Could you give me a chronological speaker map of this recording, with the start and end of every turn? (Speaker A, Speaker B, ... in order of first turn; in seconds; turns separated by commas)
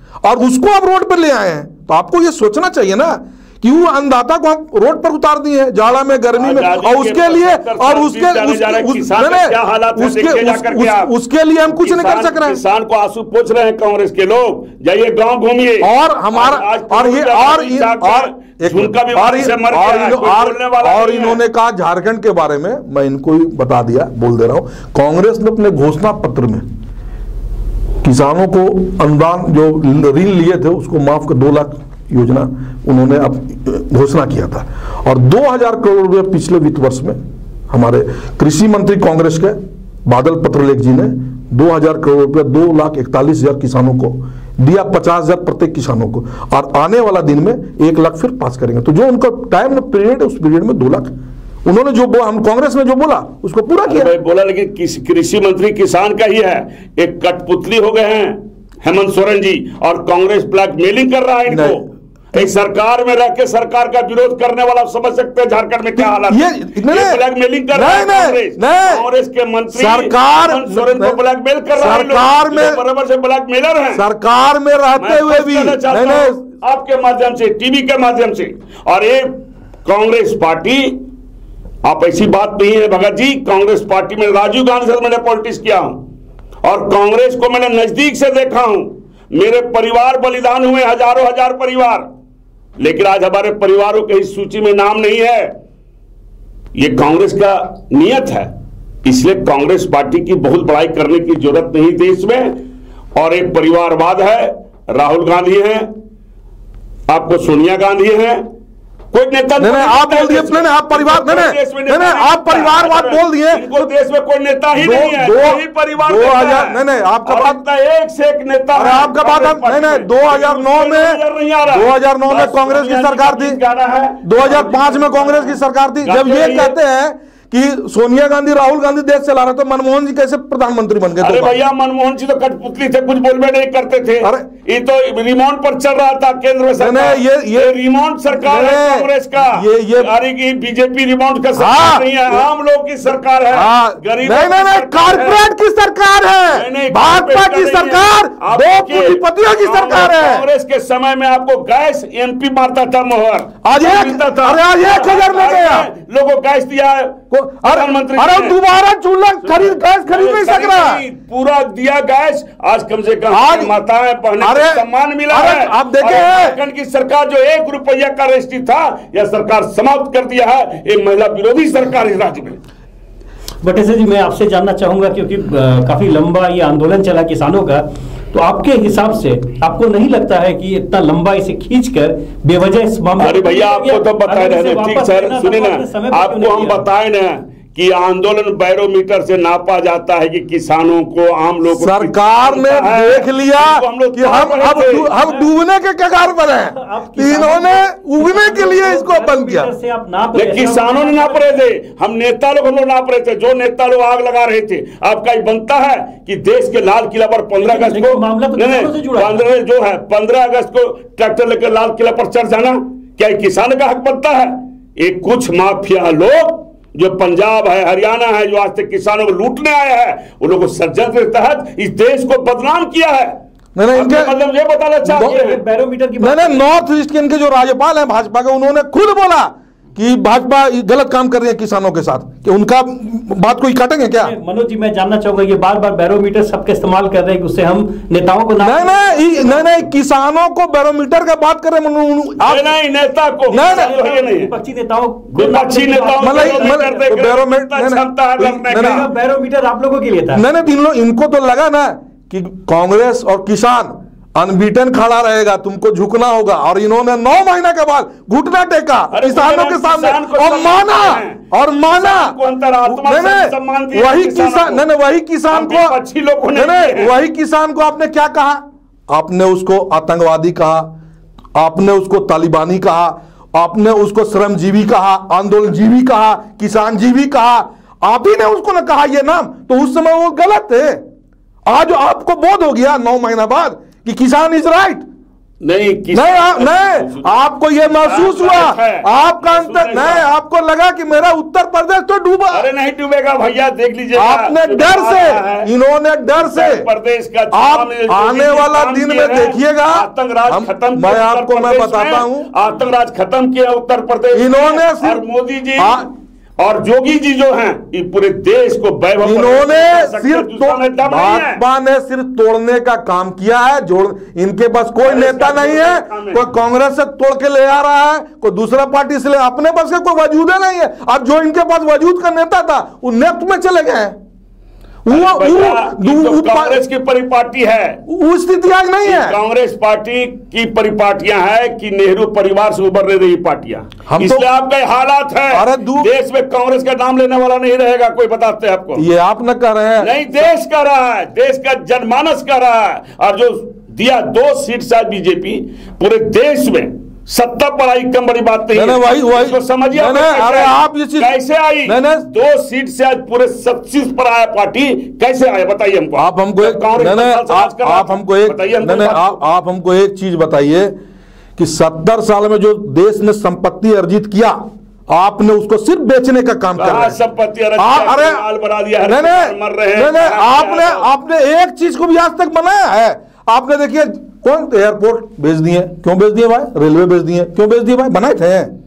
Speaker A: 0.2-12.6, Speaker B: 6.3-11.1, Speaker B: 11.7-21.4, Speaker A: 15.8-26.6, Speaker A: 28.0-37.2, Speaker A: 37.7-51.1, Speaker A: 51.6-54.1, Speaker B: 53.9-61.8, Speaker A: 61.5-61.8, Speaker B: 62.3-74.0, Speaker A: 66.0-67.2, Speaker A: 67.7-69.0, Speaker A: 69.7-71.2, Speaker A: 71.8-72.8, Speaker A: 74.0-76.4, Speaker B: 75.0-81.0, Speaker B: 81.8-86.0, Speaker B: 86.6-92.1, Speaker B: 92.8-95.5, Speaker B: 96.8-98.5, Speaker B: 99.0-102.6, Speaker B: 103.2-105.9, Speaker B: 107.1-108.4, Speaker B: 109.1-126.8, Speaker A: 109.6-113.9, Speaker A: 114.8-117.6, Speaker A: 118.7-123.6, Speaker A: 124.2-131.6, Speaker B: 131.2-145.4, Speaker A: 134.2-134.5, Speaker A: 136.8-137.8, Speaker A: 138.3-140.1, Speaker A: 141.6-142.5, Speaker A: 143.5-150.5, Speaker B: 146.5-158.6, Speaker A: 153.6-155.9, Speaker A: 157.3-161.0, Speaker B: 159.4-172.6, Speaker A: 163.3-163.7, Speaker A: 164.4-166.6, Speaker C: 173.6-186.8, Speaker B: 183.2-195.1, Speaker A: 191.7-199.7, Speaker C: 195.0-195.5, Speaker C: 196.5-201.7, Speaker B: 200.3-223.4, Speaker C: 207.6-209.5, Speaker A: 223.8-224.3, Speaker B: 223.9-225.6, Speaker C: 225.1-226.7, Speaker A: 225.1-225.4, Speaker A: 226.2-234.3, Speaker C: 234.2-239.8, Speaker A: 238.6-242.7, Speaker B: 242.4-244.5, Speaker A: 243.5-243.9, Speaker C: 243.5-247.1, Speaker B: 245.3-249.1, Speaker A: 246.2-249.1, Speaker C: 248.7-250.5, Speaker A: 250.3-266.0, Speaker B: 259.1-264.8, Speaker B: 265.5-267.1, Speaker A: 266.5-270.9, Speaker A: 271.6-281.0, Speaker A: 281.7-285.1, Speaker B: 285.6-290.3, Speaker A: 286.1-292.7, Speaker B: 292.5-295.7, Speaker A: 294.1-296.9, Speaker B: 296.3-306.0, Speaker A: 297.5-302.5, Speaker A: 304.3-305.2, Speaker A: 305.8-306.1, Speaker B: 306.6-311.6, Speaker A: 309.2-324.2, Speaker B: 315.0-316.4, Speaker A: 325.1-326.8, Speaker B: 325.1-328.0, Speaker A: 328.1-329.4, Speaker B: 329.1-339.1, Speaker A: 334.1-334.4, Speaker A: 335.5-336.1, Speaker A: 339.0-340.1, Speaker B: 340.0-359.4, Speaker A: 348.7-352.3, Speaker A: 356.2-361.0, Speaker A: 361.6-367.2, Speaker B: 366.8-371.1, Speaker A: 367.8-368.4, Speaker A: 369.0-378.7